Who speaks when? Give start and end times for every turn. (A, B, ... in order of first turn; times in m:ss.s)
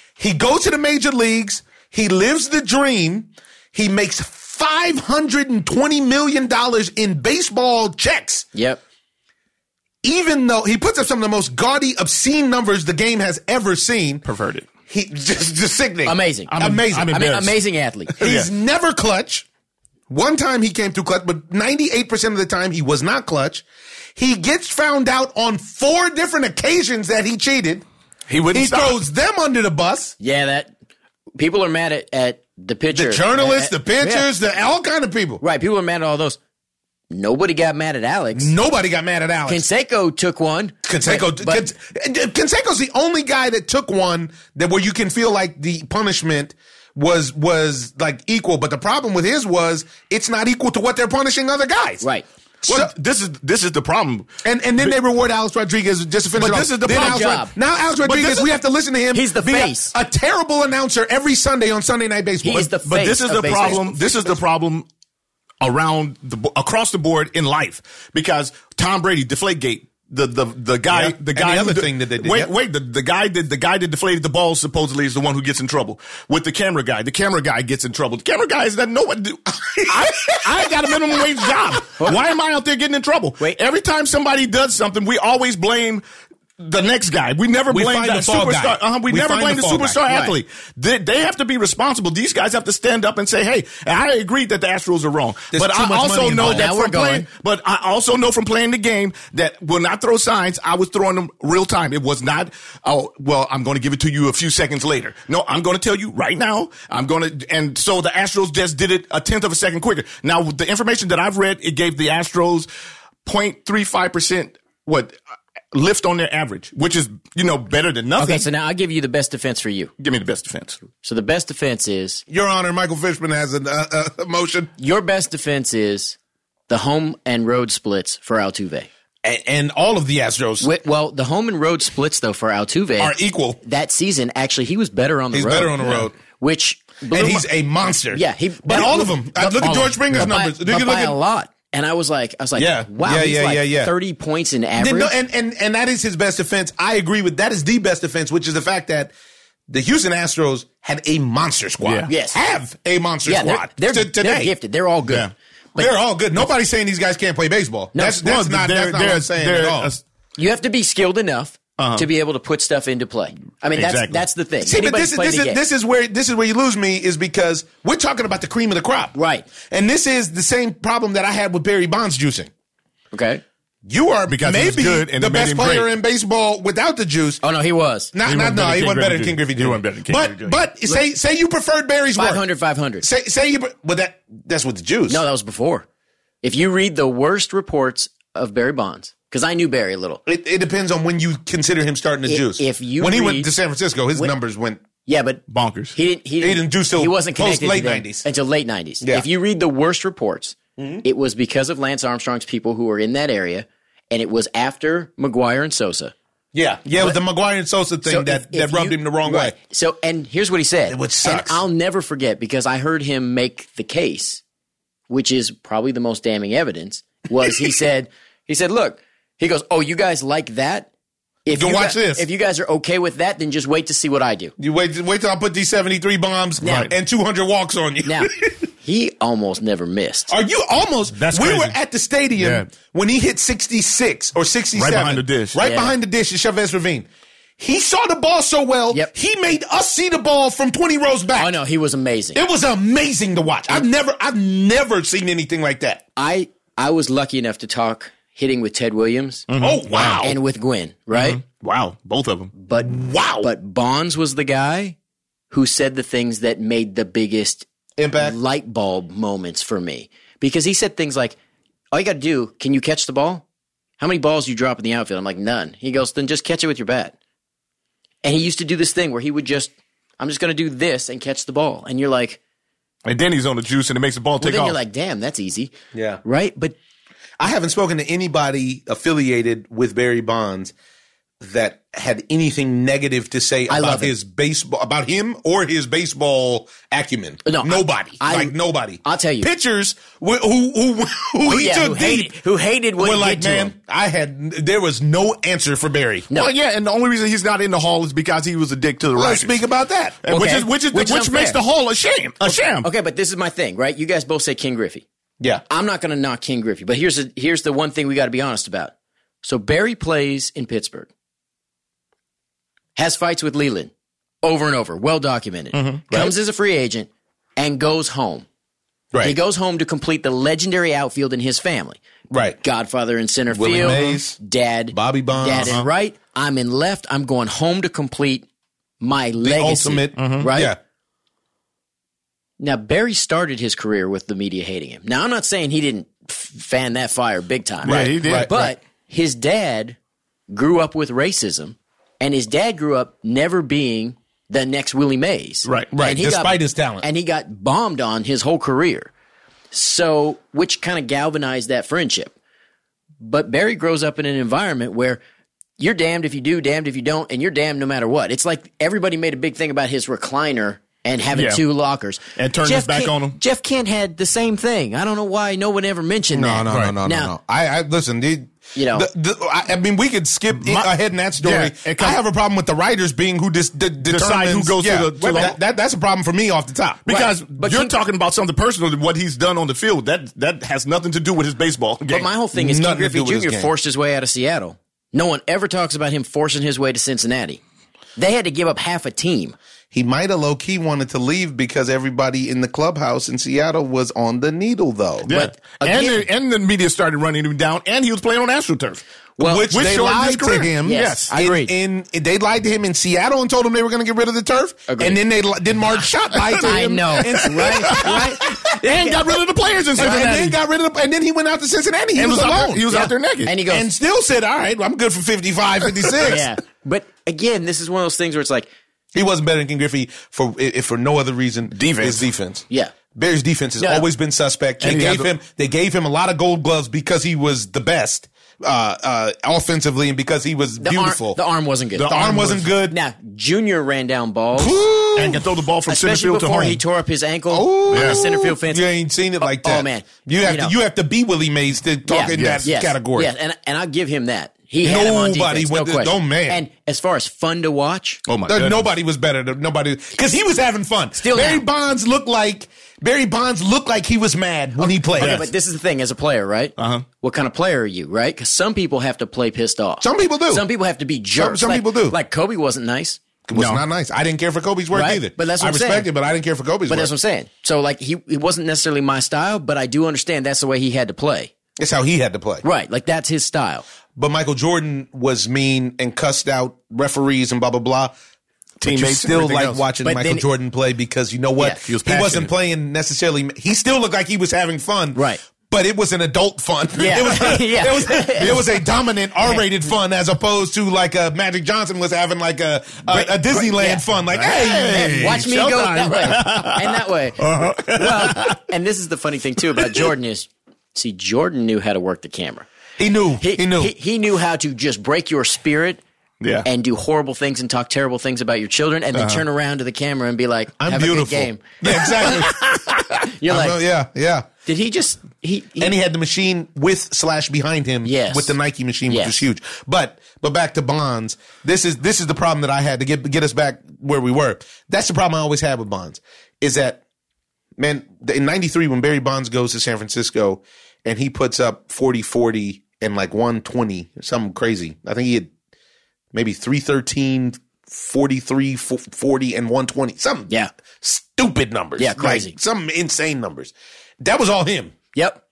0:00.2-0:08.5 A
0:08.6-0:08.8 B
0:10.0-0:14.2 A
0:14.2-0:14.7 C
0:14.9-0:17.2 A
0:16.1-0:18.2 B
0:16.5-0:17.5 C
0:18.2-0:18.5 C
0:18.2-0:19.5 A
0:20.1-0:23.6 A
0:24.2-0:27.8 A
0:28.3-0:29.0 C
0:28.5-0:30.2 A
0:30.2-0:30.7 B
0:31.4-0:34.3 B
0:32.9-0:35.4 A
0:35.4-0:36.4 B
0:37.1-0:38.5 B
0:38.4-0:39.6 A
0:39.5-0:41.7 B
0:40.9-0:52.0 A
0:52.6-0:52.9 A
0:52.7-0:54.3 C
0:54.4-1:02.7 A
0:56.4-0:57.4 C
0:56.8-0:57.5 B
0:58.0-0:58.5 C
0:59.1-0:59.9 B
1:02.4-1:03.9 B
1:02.8-1:04.9 C
1:03.6-1:04.0 A
1:05.6-1:26.0 C
1:10.9-1:12.5 A
1:19.8-1:21.7 A
1:26.6-1:52.7 C
1:27.7-1:30.0 A
1:30.1-1:30.4 B
1:35.5-1:36.7 A
1:36.4-1:37.3 B
1:53.2-1:55.2 C
1:55.7-1:58.4 C
1:58.2-1:59.9 B
2:00.0-2:00.8 C
2:01.0-2:02.2 B
2:02.3-2:04.7 A
2:04.8-2:06.2 B
2:06.7-2:08.9 B
2:09.2-2:10.7 A
2:10.6-2:17.5 B
2:13.0-2:13.6 A
2:15.3-2:16.2 A
2:17.1-2:21.2 A
2:18.1-2:25.1 B
2:22.6-2:23.9 A
2:24.8-2:29.1 A
2:29.7-2:34.5 A
2:31.8-2:32.1 C
2:32.1-2:32.4 B
2:33.3-2:35.9 B
2:35.8-2:39.9 A
2:38.0-2:38.2 B
2:38.2-2:40.0 C
2:40.4-2:45.6 B
2:41.8-2:42.1 C
2:43.8-2:44.2 C
2:44.6-2:52.5 A
2:49.2-2:49.5 B
2:53.1-2:53.4 B
2:53.9-2:57.4 A
2:54.3-2:55.9 C
2:57.4-2:58.1 B
2:58.1-3:02.4 A
2:58.2-3:00.6 C
3:02.2-3:03.1 B
3:03.0-3:05.2 A
3:05.1-3:05.9 B
3:06.4-3:10.2 B
3:10.3-3:14.8 A
3:12.3-3:13.5 B
3:15.0-3:15.4 B
3:15.5-3:16.0 C
3:15.9-3:26.1 B
3:16.4-3:18.2 A
3:20.8-3:21.0 A
3:26.5-3:29.6 A
3:28.1-3:34.4 B
3:30.9-3:31.6 A
3:35.1-3:40.9 B
3:41.4-3:44.5 B
3:41.5-3:42.3 A
3:44.6-3:48.5 A
3:46.6-3:46.9 B
3:46.6-3:46.9 C
3:48.1-3:48.3 B
3:48.8-3:50.3 B
3:50.3-3:57.1 A
3:51.1-3:51.8 C
3:52.4-3:52.7 C
3:54.8-3:55.6 C
3:55.6-3:56.0 B
3:57.6-4:01.5 A
4:01.4-4:02.4 B
4:02.3-4:06.0 A
4:06.2-4:09.5 B
4:09.5-4:10.2 C
4:09.6-4:10.4 A
4:10.0-4:11.4 B
4:11.1-4:12.5 C
4:12.6-4:15.0 B
4:12.8-4:13.5 A
4:15.5-4:21.4 B
4:18.0-4:18.4 A
4:21.9-4:23.4 B
4:24.0-4:27.2 B
4:28.2-4:32.4 B
4:33.1-4:34.8 C
4:34.4-4:35.7 B
4:35.9-4:36.2 A
4:36.2-4:36.8 B
4:37.4-4:40.7 A
4:41.4-4:52.3 A
4:43.7-4:44.1 B
4:47.4-4:49.5 B
4:51.5-4:53.7 B
4:53.0-4:56.3 A
4:56.3-4:59.5 C
4:59.2-5:00.2 A
5:00.2-5:02.9 C
5:00.3-5:01.6 B
5:02.4-5:05.0 B
5:05.7-5:11.1 B
5:13.0-5:13.9 B
5:14.4-5:18.5 B
5:15.7-5:16.1 C
5:19.2-5:22.0 B
5:22.3-5:22.6 A
5:22.6-5:28.5 B
5:23.5-5:24.4 A
5:23.8-5:24.1 C
5:24.9-5:25.8 A
5:25.6-5:25.9 C
5:29.0-5:30.8 B
5:29.4-5:30.8 A
5:30.2-5:30.5 C
5:32.6-5:40.0 B
5:37.8-5:38.5 C
5:37.8-5:38.7 A
5:40.5-5:49.1 B
5:45.6-5:45.9 C
5:45.9-5:47.0 A
5:49.7-5:52.3 B
5:53.2-5:55.2 B
5:55.8-6:07.3 B
6:01.3-6:01.6 C
6:02.4-6:03.4 C
6:06.3-6:17.0 A
6:06.7-6:07.0 C
6:08.8-6:09.1 B
6:10.6-6:12.2 C
6:14.1-6:15.6 C
6:17.0-6:22.3 C
6:17.1-6:18.0 B
6:22.1-6:27.6 B
6:22.5-6:23.7 A
6:28.2-6:29.6 B
6:29.9-6:35.3 A
6:35.3-6:39.0 C
6:35.3-6:36.2 B
6:39.4-6:39.7 B
6:39.4-6:48.6 A
6:39.7-6:41.3 C
6:40.8-6:41.7 B
6:44.9-6:45.2 B
6:46.4-6:50.6 C
6:46.6-6:49.4 B
6:50.0-6:50.4 B
6:50.0-6:52.9 A
6:52.2-6:53.5 C
6:52.9-6:53.9 B
6:53.7-6:56.4 A
6:56.2-6:58.7 B
6:59.1-7:11.4 A
7:01.8-7:02.2 C
7:03.8-7:04.1 B
7:04.8-7:05.3 C
7:10.8-7:14.8 B
7:12.0-7:12.7 C
7:12.1-7:13.0 A
7:14.6-7:15.4 A
7:15.2-7:16.8 C
7:15.9-7:18.9 B
7:17.5-7:23.3 A
7:17.9-7:18.2 C
7:19.4-7:20.8 B
7:22.1-7:28.2 B
7:22.3-7:22.7 C
7:24.8-7:26.6 A
7:28.3-7:28.8 C
7:28.5-7:35.5 A
7:31.2-7:31.6 B
7:34.9-7:43.2 B
7:35.2-7:35.5 C
7:36.8-7:37.0 C
7:40.0-7:40.6 A
7:41.4-7:42.2 A
7:43.5-7:47.1 A
7:43.6-7:43.8 C
7:44.9-7:46.1 B
7:46.9-7:51.5 B
7:51.8-7:52.6 A
7:52.6-7:53.9 B
7:54.2-7:58.1 A
7:58.8-7:59.8 C
7:58.8-8:15.5 A
8:00.0-8:00.4 B
8:01.8-8:02.5 C
8:05.2-8:05.4 B
8:07.0-8:08.8 B
8:13.1-8:14.1 B
8:14.3-8:18.6 C
8:14.6-8:22.7 B
8:19.8-8:20.1 C
8:23.0-8:23.9 A
8:23.4-8:26.0 B
8:26.4-8:26.7 C
8:26.6-8:32.6 B
8:29.1-8:29.4 C
8:30.8-8:34.5 A
8:33.4-8:33.8 B
8:34.7-8:36.0 B
8:35.8-8:47.0 A
8:38.0-8:38.6 B
8:39.1-8:39.4 B
8:47.8-8:55.5 A
8:56.3-9:05.0 A
9:02.0-9:02.6 B
9:05.2-9:05.4 B